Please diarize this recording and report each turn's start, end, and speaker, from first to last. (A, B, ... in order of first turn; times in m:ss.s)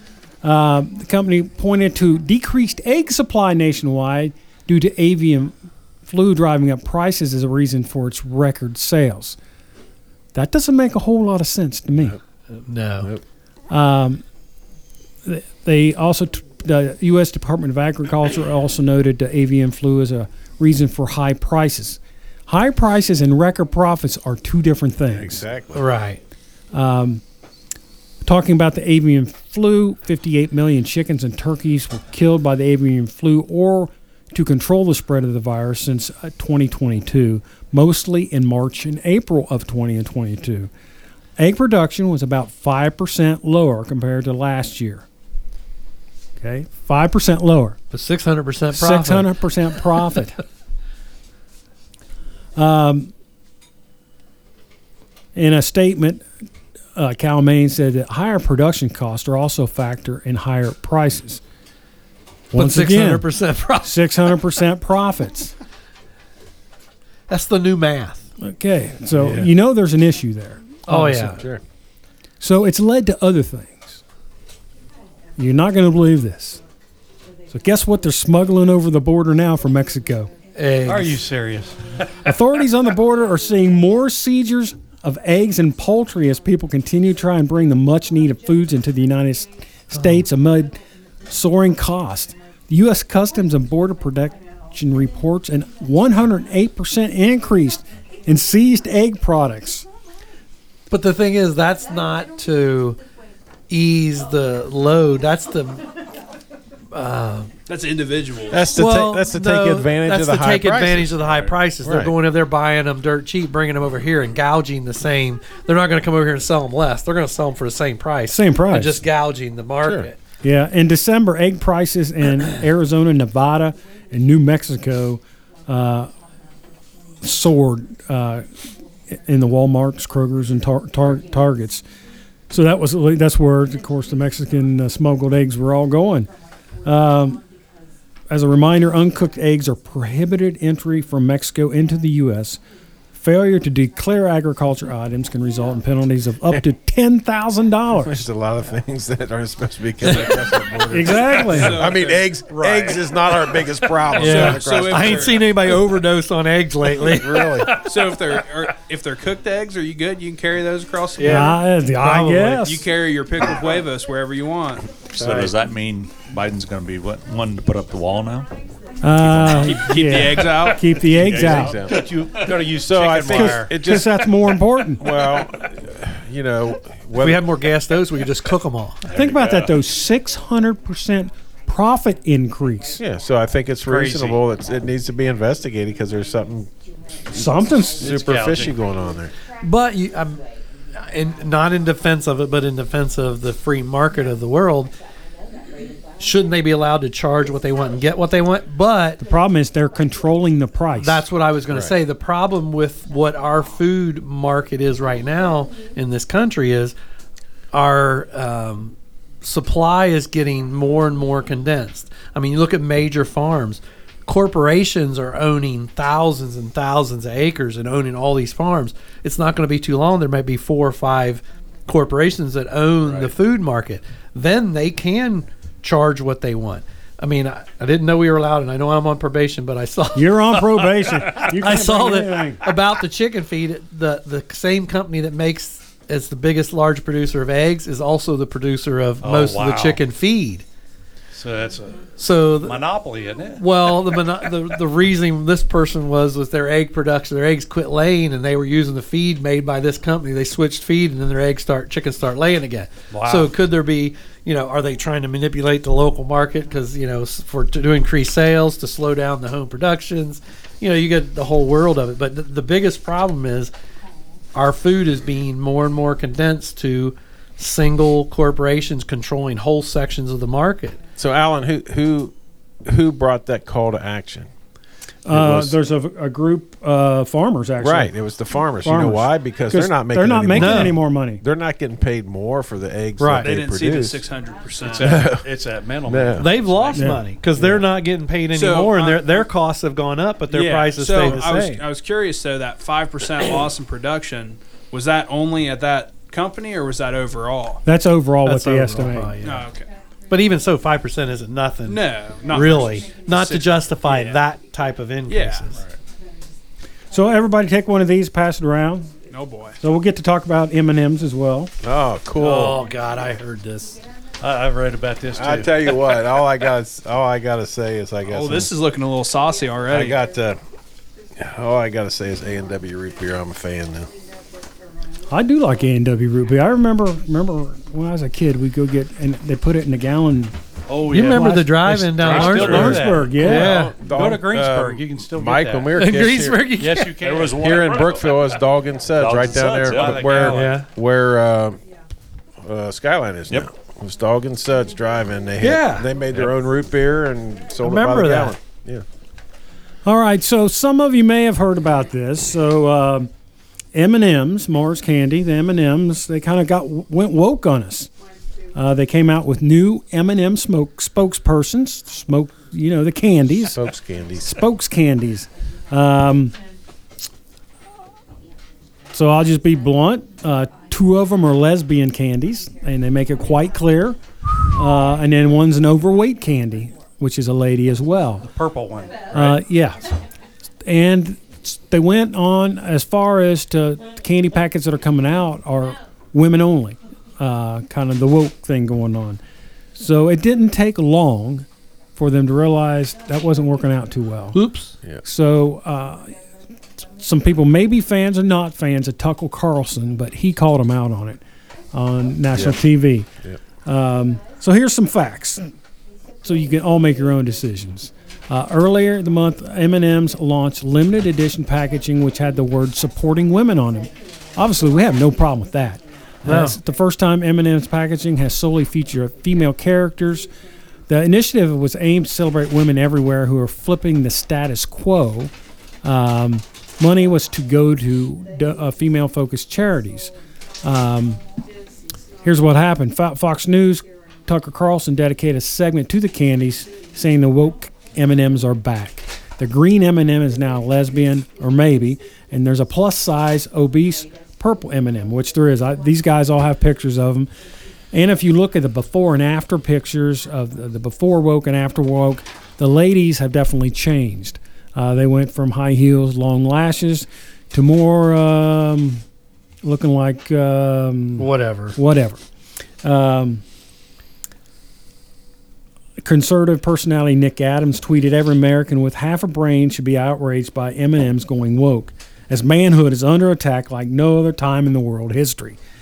0:00.4-0:09.4 A
0:10.3-0:12.2 A
0:12.5-0:13.1 B
0:13.7-0:14.2 A
0:15.2-0:25.4 A
0:25.1-0:25.9 C
0:25.7-0:26.2 B
0:26.7-0:27.2 A
0:28.2-0:40.7 A
0:41.4-0:45.0 A
0:46.4-0:47.8 A
0:47.9-0:49.3 B
0:48.7-0:50.4 A
0:52.6-0:53.1 A
0:55.3-0:56.2 A
0:56.9-1:01.4 A
1:02.5-1:03.3 A
1:02.5-1:04.0 B
1:03.8-1:05.5 A
1:07.3-1:08.2 B
1:08.4-1:11.3 A
1:09.2-1:09.5 B
1:10.9-1:11.4 B
1:10.9-1:11.6 C
1:12.4-1:14.0 A
1:15.4-1:16.6 A
1:17.5-1:20.3 A
1:20.5-1:21.2 B
1:20.8-1:22.1 D
1:22.2-1:39.8 A
1:40.9-1:43.0 B
1:43.7-1:45.9 B
1:46.9-1:47.5 B
1:47.7-1:48.7 E
1:48.5-1:52.1 C
1:48.7-2:00.2 B
1:58.3-1:59.0 A
1:59.8-2:00.1 C
2:00.4-2:06.1 A
2:07.2-2:08.5 A
2:09.1-2:11.8 A
2:12.5-2:16.3 A
2:16.8-2:17.4 A
2:18.3-2:22.6 A
2:23.2-2:28.2 A
2:28.0-2:35.4 C
2:30.9-2:31.8 A
2:31.5-2:32.3 E
2:32.5-2:33.6 D
2:34.1-2:35.7 E
2:34.1-2:37.7 B
2:37.0-2:37.8 C
2:37.8-2:41.6 E
2:41.2-2:42.6 B
2:41.2-2:42.9 A
2:42.5-2:44.9 E
2:45.1-2:48.5 F
2:45.2-2:45.5 C
2:49.0-2:51.8 A
2:49.2-2:49.8 F
2:49.5-2:50.9 E
2:51.1-2:52.5 F
2:51.3-2:53.8 D
2:51.3-2:54.2 C
2:53.3-2:55.0 A
2:55.0-2:57.5 C
2:57.2-2:59.0 B
2:59.1-2:59.7 F
2:59.1-3:03.0 A
3:03.0-3:06.7 C
3:03.9-3:04.3 D
3:03.9-3:04.2 B
3:07.3-3:08.2 A
3:07.3-3:09.3 C
3:08.0-3:08.8 D
3:09.6-3:10.4 B
3:11.0-3:14.9 B
3:16.2-3:19.2 B
3:19.2-3:21.2 A
3:21.0-3:26.9 B
3:27.7-4:00.6 B
3:50.1-3:52.6 A
3:59.2-4:00.0 D
4:01.3-4:02.1 D
4:02.2-4:02.9 B
4:02.6-4:04.2 D
4:03.5-4:23.7 B
4:13.1-4:13.5 D
4:24.5-4:31.0 B
4:31.2-4:32.3 C
4:32.8-4:34.5 C
4:35.2-4:38.1 A
4:35.3-4:35.8 C
4:37.8-4:44.3 C
4:38.8-4:41.4 A
4:40.5-4:40.9 B
4:43.2-4:43.5 B
4:43.4-4:45.2 E
4:44.8-4:47.2 D
4:44.9-4:45.4 C
4:46.0-4:46.5 C
4:46.4-4:51.8 B
4:46.9-4:47.2 A
4:47.6-4:47.8 C
4:48.5-4:49.4 E
4:50.5-4:57.8 E
4:57.8-4:59.4 A
4:58.4-4:59.7 B
4:59.4-4:59.9 E
5:00.3-5:05.8 B
5:01.8-5:04.4 E
5:05.3-5:05.8 E
5:07.1-5:09.1 A
5:09.3-5:09.8 E
5:09.8-5:11.7 A
5:11.8-5:12.8 C
5:12.4-5:14.0 B
5:14.4-5:16.0 D
5:15.3-5:18.7 C
5:18.3-5:20.2 E
5:19.9-5:20.6 C
5:21.4-5:24.1 C
5:25.3-5:30.6 A
5:30.9-5:36.0 D
5:31.1-5:33.9 B
5:31.3-5:31.9 A
5:32.2-5:32.9 F
5:32.6-5:33.8 A
5:33.5-5:36.7 C
5:35.9-5:37.2 B
5:36.8-5:38.4 D
5:37.2-5:38.3 F
5:37.3-5:41.8 C
5:39.2-5:40.6 F
5:39.8-5:40.8 D
5:40.4-5:40.9 B
5:42.6-5:49.0 C
5:45.6-5:46.1 B
5:47.8-5:48.5 B
5:50.0-5:53.3 A
5:53.9-5:58.1 A
5:58.7-6:03.8 A
6:03.7-6:04.6 C
6:04.4-6:06.6 A
6:09.1-6:18.5 A
6:18.4-6:19.6 D
6:19.3-6:20.2 A
6:20.8-6:29.4 A
6:30.0-6:34.6 A
6:34.5-6:34.9 B
6:35.2-6:36.4 A
6:37.2-6:41.4 A
6:41.9-6:43.3 A
6:42.5-6:42.8 C
6:43.8-6:45.7 A
6:46.4-7:00.5 A
6:56.4-6:56.8 B
7:01.1-7:05.5 A
7:06.0-7:11.4 A
7:12.4-7:27.5 A
7:28.1-7:39.2 A
7:39.8-7:42.4 A
7:41.4-7:42.0 B
7:43.0-7:43.6 A
7:46.2-7:55.8 A